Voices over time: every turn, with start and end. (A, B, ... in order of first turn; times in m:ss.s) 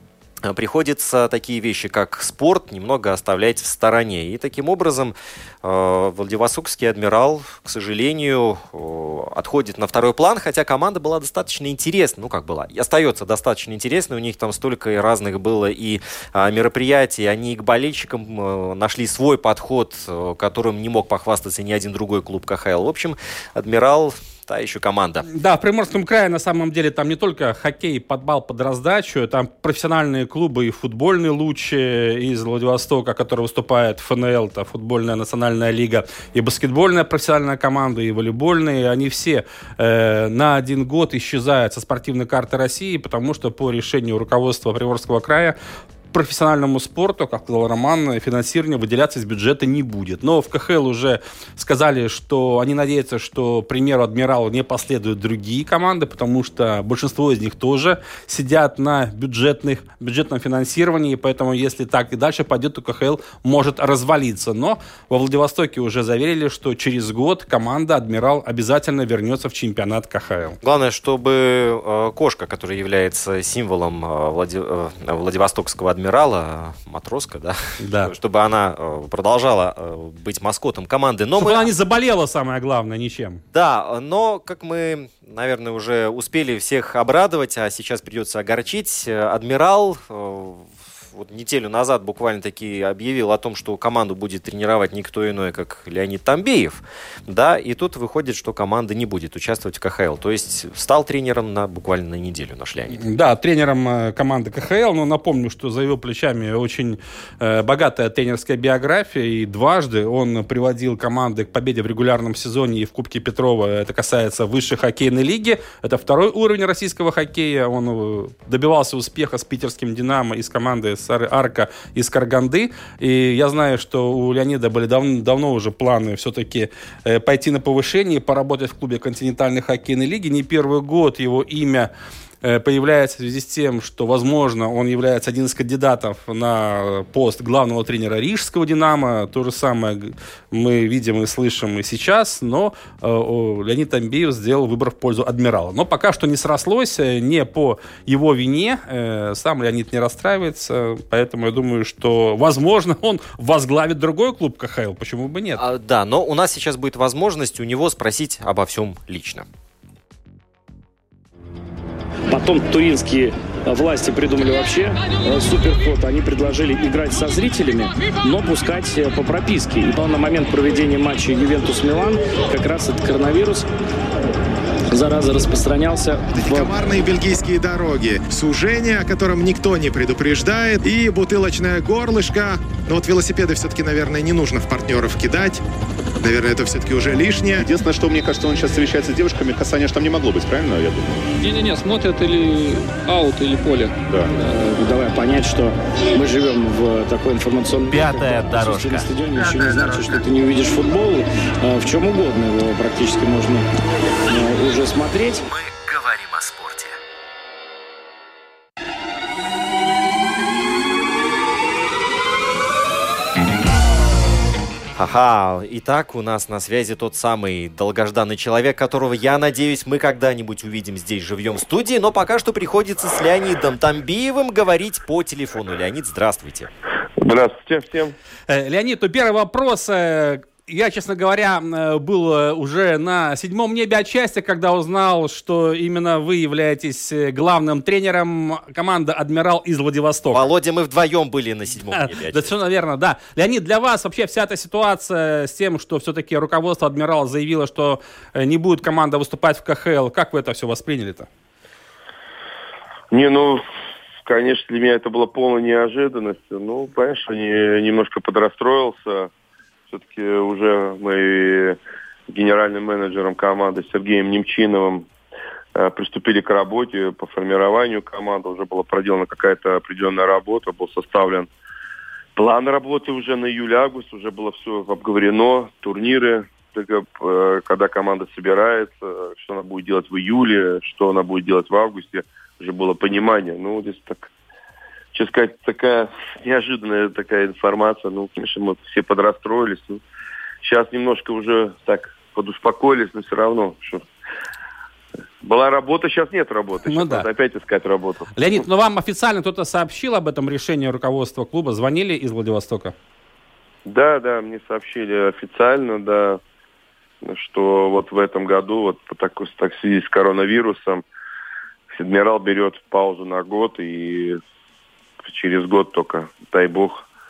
0:00.4-0:25.3 A
0:25.3-0:45.5 B
0:46.1-1:10.6 B
1:10.6-1:21.7 A
1:17.8-1:18.1 B
1:21.4-1:23.4 B
1:23.5-1:43.0 A
1:42.9-2:11.9 B
2:12.4-2:35.6 B
2:35.6-2:39.4 A
2:42.3-2:53.6 C
2:54.9-2:56.7 C
2:56.3-3:05.6 D
3:06.2-3:07.6 D
3:07.6-3:11.2 E
3:11.4-3:14.0 F
3:14.1-3:14.3 E
3:14.5-3:23.7 C
3:17.9-3:19.1 A
3:24.3-3:25.4 C
3:25.3-3:26.9 A
3:35.0-3:46.7 A
3:47.2-3:48.1 G
3:48.5-4:00.4 B
4:00.3-4:02.5 A
4:01.9-4:11.3 B
4:13.1-4:13.6 G
4:14.2-4:19.3 G
4:19.9-4:25.1 G
4:25.7-4:31.5 G
4:32.4-4:44.3 G
4:45.1-4:50.0 G
4:50.6-4:54.0 G
4:55.4-4:58.3 G
4:56.9-4:57.3 B
4:58.4-5:02.9 B
5:03.8-5:06.4 G
5:07.2-5:11.0 G
5:11.9-5:14.4 G
5:15.2-5:17.0 G